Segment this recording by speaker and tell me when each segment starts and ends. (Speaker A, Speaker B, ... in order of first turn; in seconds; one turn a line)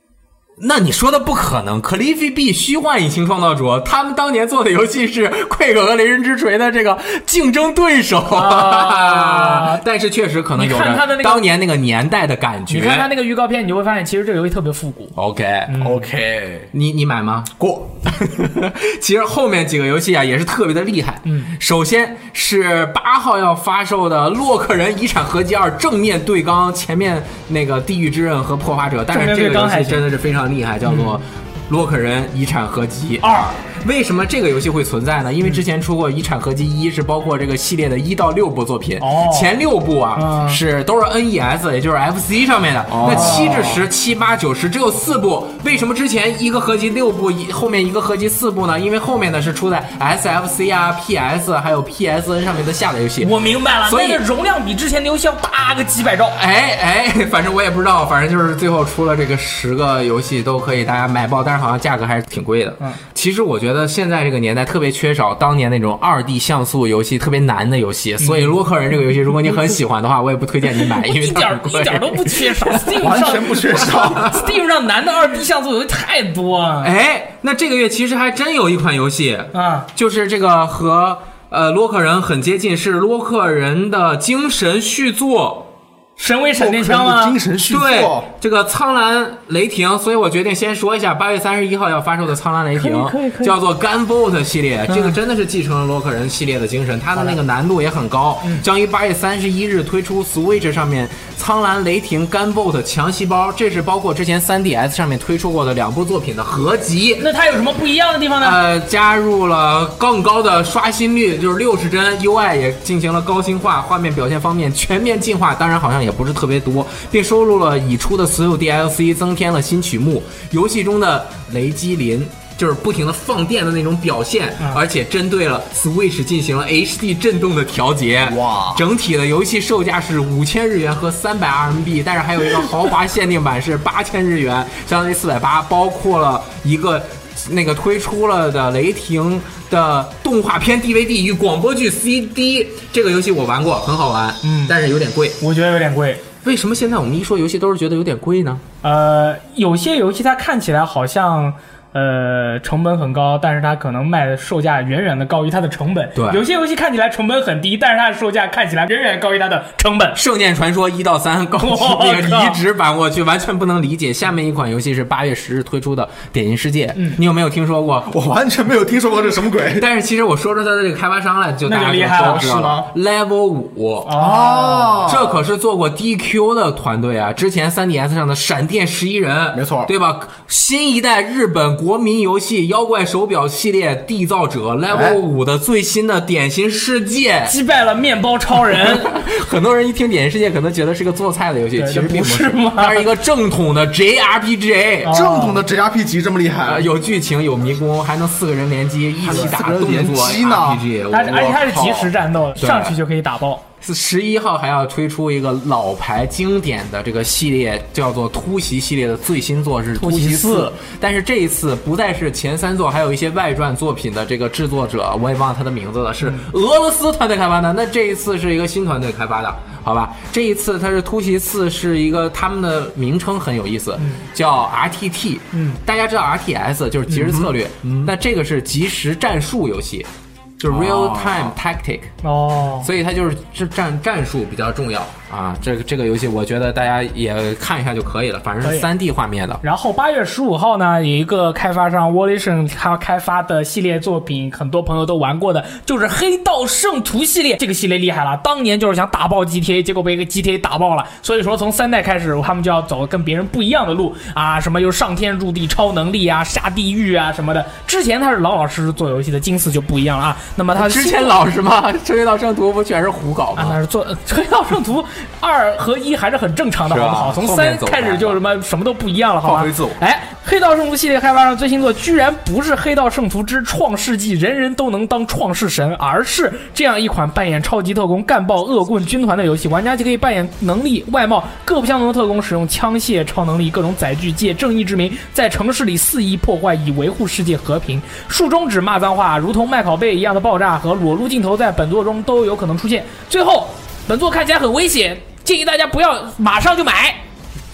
Speaker A: 0.6-13.1
Speaker B: 8.3-9.8
Speaker B: 10.6-11.4
Speaker B: 12.7-15.1
Speaker A: 15.2-16.2
Speaker B: 15.7-16.0
Speaker C: 15.8-16.7
Speaker A: 16.7-53.3
Speaker C: 17.6-17.9
Speaker B: 21.2-21.5
Speaker B: 29.1-30.1
Speaker B: 30.9-31.2
Speaker B: 33.2-33.5
Speaker B: 39.0-39.5
Speaker B: 40.1-40.6
Speaker C: 42.9-43.8
Speaker B: 43.0-43.8
Speaker B: 53.2-56.4
Speaker A: 53.9-54.2
Speaker A: 56.3-73.0
Speaker B: 68.2-68.5
Speaker B: 70.8-76.9
Speaker C: 73.0-74.4
Speaker A: 73.9-74.4
Speaker A: 76.8-85.7
Speaker B: 79.5-79.9
Speaker B: 86.2-87.4
Speaker C: 86.6-88.3
Speaker A: 87.7-107.3
Speaker B: 92.8-93.5
Speaker B: 94.9-95.2
Speaker B: 107.2-108.6
Speaker A: 108.4-145.4
Speaker C: 128.2-128.8
Speaker B: 144.4-144.7
Speaker B: 145.4-146.2
Speaker A: 146.4-148.6
Speaker B: 148.8-160.2
Speaker A: 156.2-156.4
Speaker A: 160.2-168.1
Speaker B: 161.6-162.6
Speaker C: 168.1-169.8
Speaker A: 169.7-174.1
Speaker B: 171.6-172.4
Speaker C: 172.2-172.9
Speaker B: 174.0-175.1
Speaker C: 174.1-175.4
Speaker A: 175.0-187.5
Speaker C: 179.5-179.9
Speaker C: 184.9-185.2
Speaker B: 187.5-189.2
Speaker A: 188.8-195.2
Speaker B: 191.8-193.1
Speaker B: 195.0-195.6
Speaker C: 195.1-196.9
Speaker A: 196.6-201.5
Speaker B: 199.2-199.6
Speaker C: 199.2-202.1
Speaker B: 201.1-203.6
Speaker A: 202.6-202.9
Speaker A: 203.8-230.1
Speaker B: 210.0-210.7
Speaker B: 216.2-216.5
Speaker B: 224.0-224.2
Speaker B: 225.5-225.8
Speaker A: 230.6-232.1
Speaker C: 230.7-231.4
Speaker B: 232.2-232.9
Speaker A: 232.8-239.6
Speaker B: 238.6-238.9
Speaker B: 239.6-261.4
Speaker A: 260.7-263.8
Speaker B: 263.6-297.2
Speaker A: 266.9-268.4
Speaker A: 269.4-269.9